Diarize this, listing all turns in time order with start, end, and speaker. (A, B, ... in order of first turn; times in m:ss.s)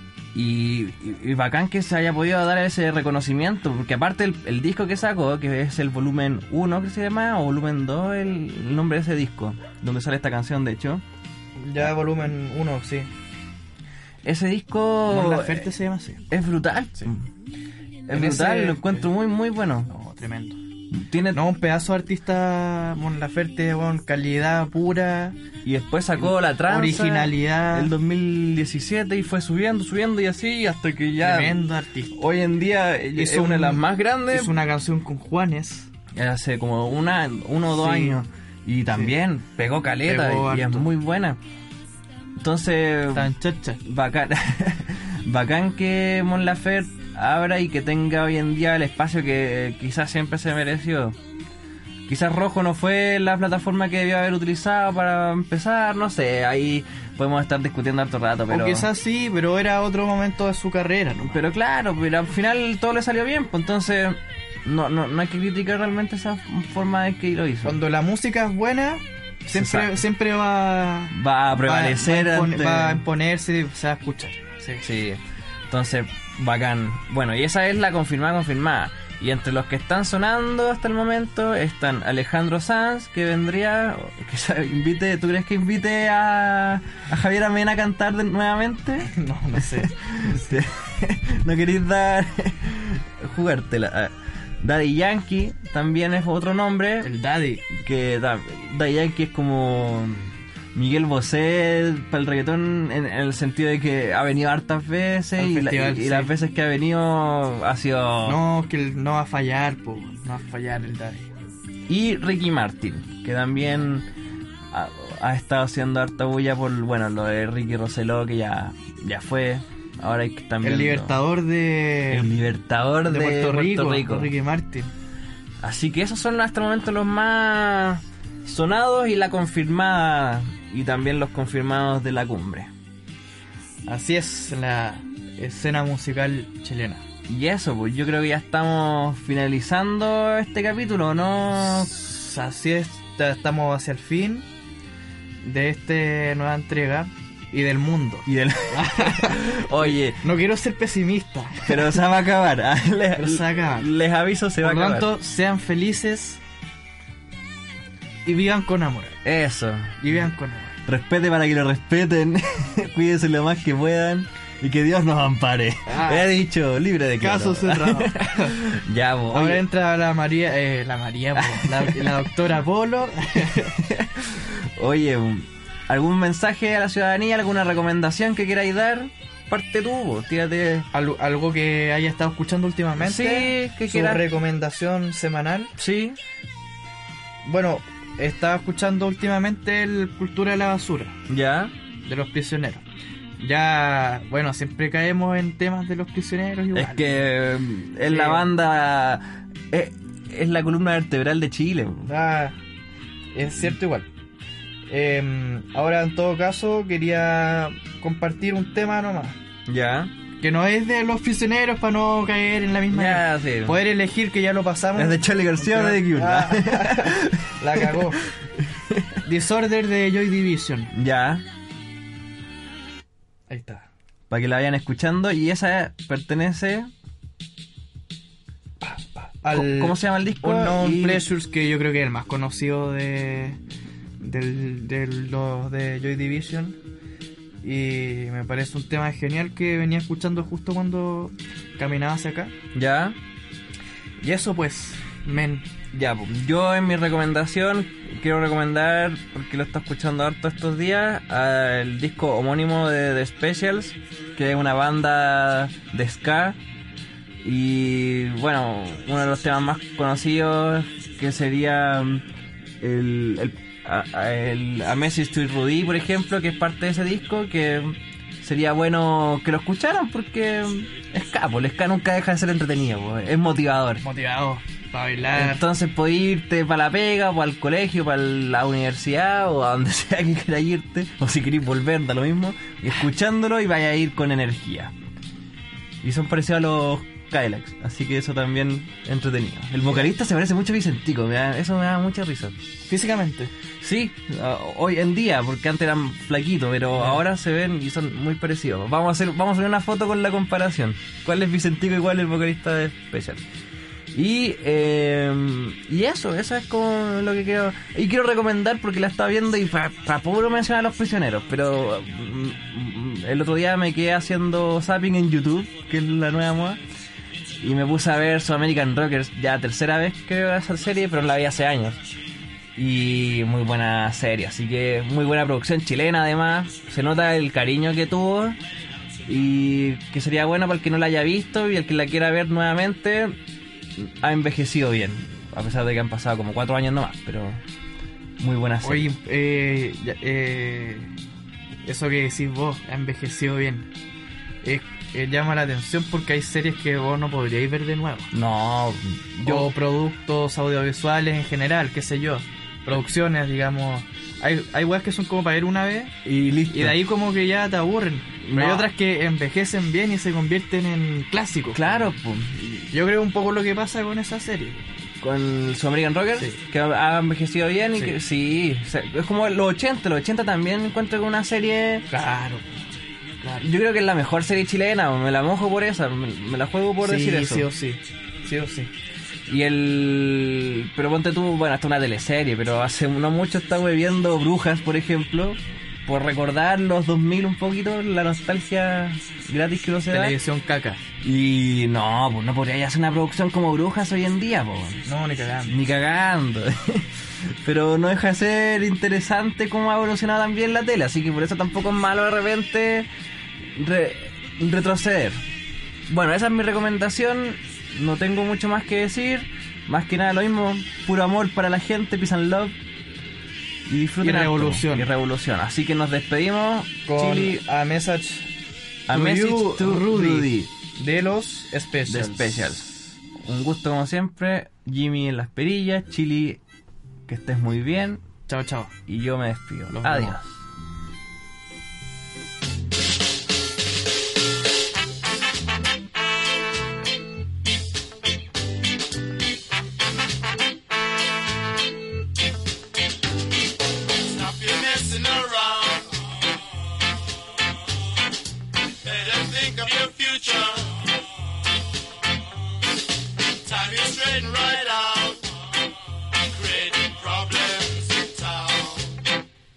0:00.3-0:11.0 A
0:11.6-0:13.1 B
0:14.2-0:15.7 A
0:15.1-0:16.2 B
0:16.3-0:17.3 A
0:18.1-0:19.9 A
0:18.1-0:19.1 B
0:19.9-0:20.6 B
0:20.9-0:21.4 A
0:21.3-0:25.4 B
0:25.6-0:31.6 A
0:26.2-0:27.9 B
0:31.2-0:32.1 B
0:32.1-0:34.5 A
0:33.1-0:35.9 B
0:36.1-0:41.4 A
0:37.8-0:38.2 B
0:38.9-0:39.1 B
0:40.0-0:40.9 B
0:42.4-0:43.3 A
0:43.1-0:43.8 B
0:43.8-0:51.2 A
0:52.0-0:58.9 A
0:58.5-1:01.4 B
1:01.3-1:07.8 A
1:07.6-1:14.9 B
1:09.5-1:10.0 A
1:11.1-1:13.0 A
1:14.8-1:37.1 A
1:29.0-1:30.6 B
1:37.0-1:37.6 B
1:37.7-1:48.4 A
1:45.4-1:46.3 B
1:48.2-1:51.3 B
1:51.9-1:54.1 A
1:54.7-2:01.2 A
2:00.6-2:02.4 B
2:02.1-2:04.3 A
2:03.0-2:04.9 B
2:05.6-2:12.7 A
2:13.8-2:17.0 B
2:17.3-2:21.9 A
2:21.7-2:24.4 B
2:25.4-2:32.0 B
2:28.2-2:30.2 A
2:31.6-2:35.1 A
2:33.2-2:33.9 B
2:34.6-2:36.4 B
2:38.2-2:39.2 B
2:39.2-2:40.0 A
2:40.0-2:40.8 B
2:40.8-2:49.6 A
2:45.9-2:46.3 B
2:47.2-2:48.8 B
2:49.3-2:53.8 B
2:51.4-2:52.2 A
2:53.5-3:00.9 A
3:00.9-3:05.7 B
3:03.0-3:04.3 A
3:05.8-3:06.2 A
3:07.4-3:11.2 B
3:11.3-3:11.7 A
3:12.0-3:12.8 B
3:13.4-3:17.3 B
3:16.7-3:22.1 A
3:18.0-3:18.5 B
3:22.0-3:22.6 B
3:23.3-3:24.1 B
3:24.9-3:29.4 B
3:29.7-3:30.1 A
3:30.4-3:38.3 B
3:32.9-3:33.8 A
3:35.0-3:38.0 A
3:38.6-3:39.2 A
3:39.2-3:40.9 B
3:40.9-3:41.4 A
3:43.5-3:43.9 B
3:44.3-3:46.9 A
3:49.4-3:53.6 B
3:49.5-3:51.3 A
3:54.2-3:56.8 B
3:57.6-4:02.5 B
4:02.7-4:03.2 A
4:04.2-4:05.7 B
4:05.9-4:16.6 A
4:17.4-4:22.2 A
4:22.8-4:34.0 A
4:34.0-4:35.6 B
4:35.3-4:44.9 A
4:46.0-4:52.6 A
4:49.8-4:50.1 B
4:52.9-4:53.5 B
4:53.8-5:03.4 A
4:56.9-4:57.2 B
5:04.1-5:16.8 A
5:17.6-5:22.0 A
5:22.7-5:28.6 A
5:29.2-5:33.4 A
5:34.0-5:37.6 A
5:38.4-5:39.1 A
5:38.8-5:41.1 B
5:41.8-5:43.9 B
5:44.6-5:48.3 B
5:48.3-5:49.7 A
5:49.4-5:56.1 B
5:56.2-5:57.0 A
5:56.7-6:01.9 B
5:58.4-5:58.9 A
6:01.7-6:02.9 A
6:02.9-6:04.9 B
6:05.2-6:12.1 A
6:12.1-6:12.6 B
6:13.4-6:13.7 B
6:13.6-6:17.7 A
6:17.0-6:18.9 B
6:19.5-6:30.4 A
6:30.1-6:31.0 B
6:31.2-6:35.0 A
6:35.0-6:35.8 B
6:35.7-6:43.1 A
6:43.7-6:45.4 A
6:46.1-6:52.8 A
6:53.9-6:57.6 A
6:54.2-6:55.1 B
6:57.0-6:58.5 B
6:59.1-7:00.7 A
6:59.1-7:02.9 B
7:02.0-7:06.6 A
7:07.3-7:08.2 A
7:08.5-7:08.9 B
7:09.1-7:10.6 A
7:09.9-7:10.4 B
7:24.1-7:26.3 C
7:29.0-7:31.2 C
7:33.6-7:35.5 C
7:36.3-7:39.2 C